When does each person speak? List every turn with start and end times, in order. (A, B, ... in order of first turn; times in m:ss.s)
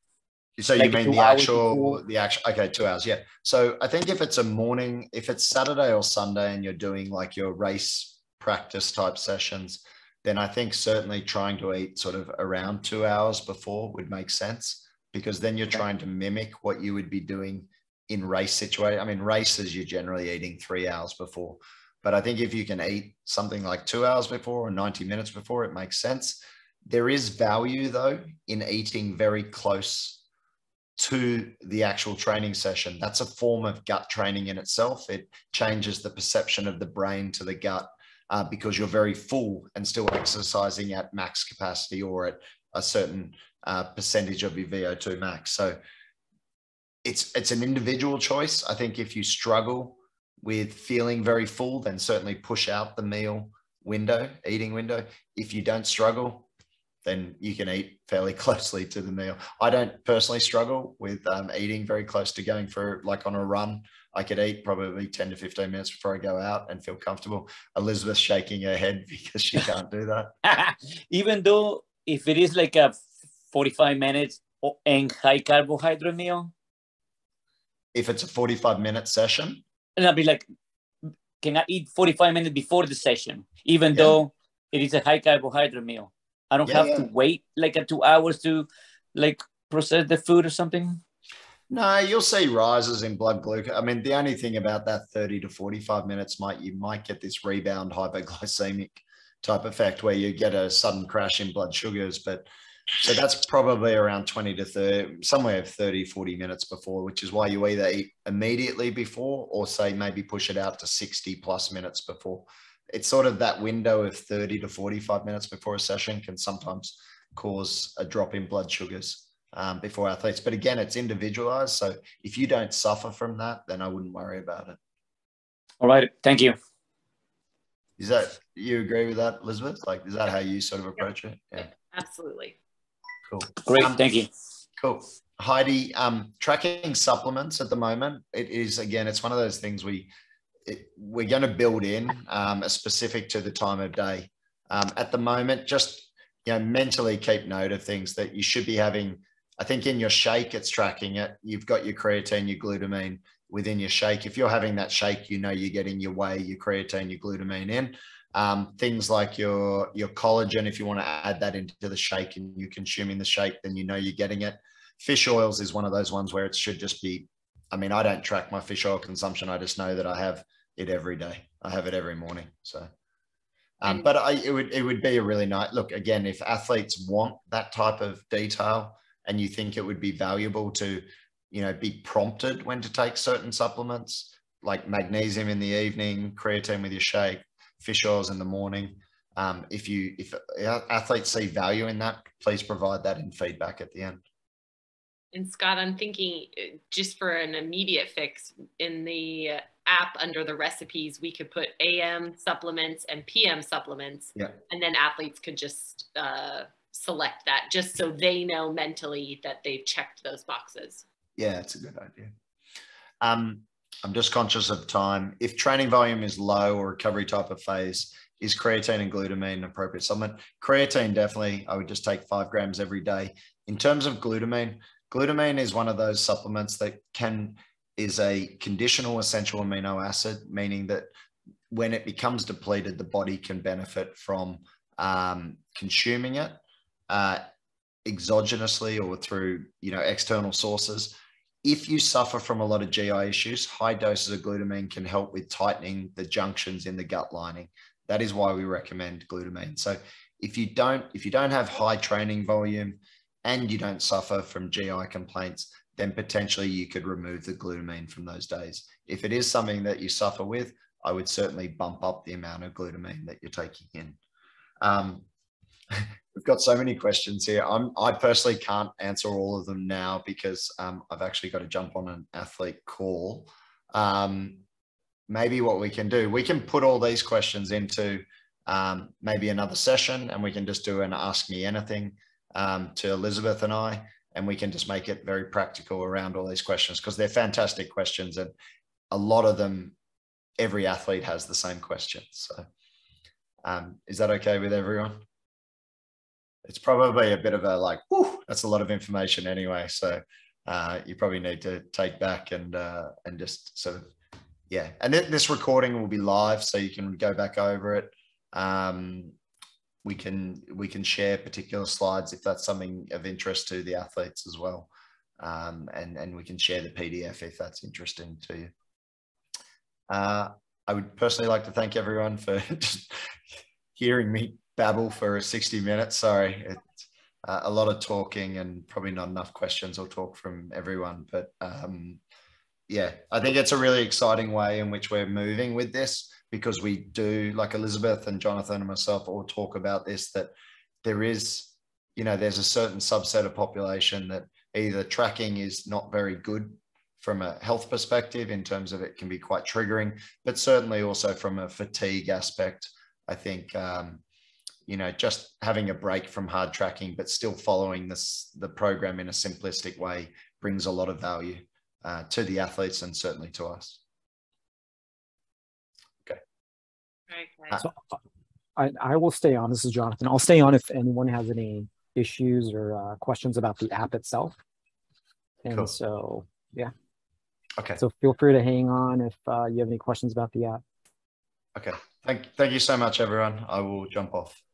0:00.6-0:30.2 A
0:00.8-0:02.0 B
0:31.0-0:45.8 A
0:47.0-0:56.5 A
0:57.0-1:10.3 A
1:10.4-1:13.0 B
1:13.5-1:16.5 B
1:17.9-1:19.6 A
1:20.0-1:20.4 B
1:21.4-1:31.0 B
1:23.9-1:24.2 A
1:26.6-1:27.1 A
1:31.7-1:42.5 A
1:43.0-2:04.8 A
2:05.8-2:06.6 B
2:08.0-2:11.7 A
2:11.9-2:12.6 C
2:13.3-2:14.1 A
2:13.6-2:14.3 B
2:14.8-2:20.1 A
2:20.7-2:52.9 A
2:53.8-3:14.2 A
3:15.3-3:31.0 C
3:31.4-3:32.3 A
3:33.2-3:51.1 A
3:51.7-3:57.4 A
3:58.0-4:24.2 A
4:24.8-4:25.3 A
4:25.9-4:34.6 A
4:35.3-4:48.5 A
4:49.1-4:50.0 A
4:50.6-4:52.7 A
4:53.6-4:55.2 A
4:56.7-5:04.1 A
5:04.7-5:09.3 A
5:10.0-5:18.7 A
5:20.1-5:23.2 A
5:24.0-5:32.2 A
5:32.9-5:40.5 A
5:41.0-5:54.2 A
5:54.9-6:04.0 A
6:07.3-6:07.7 C
6:07.8-6:08.1 D
6:08.8-6:14.6 D
6:15.6-6:16.9 D
6:15.7-6:15.9 A
6:18.0-6:20.8 D
6:21.8-6:24.6 A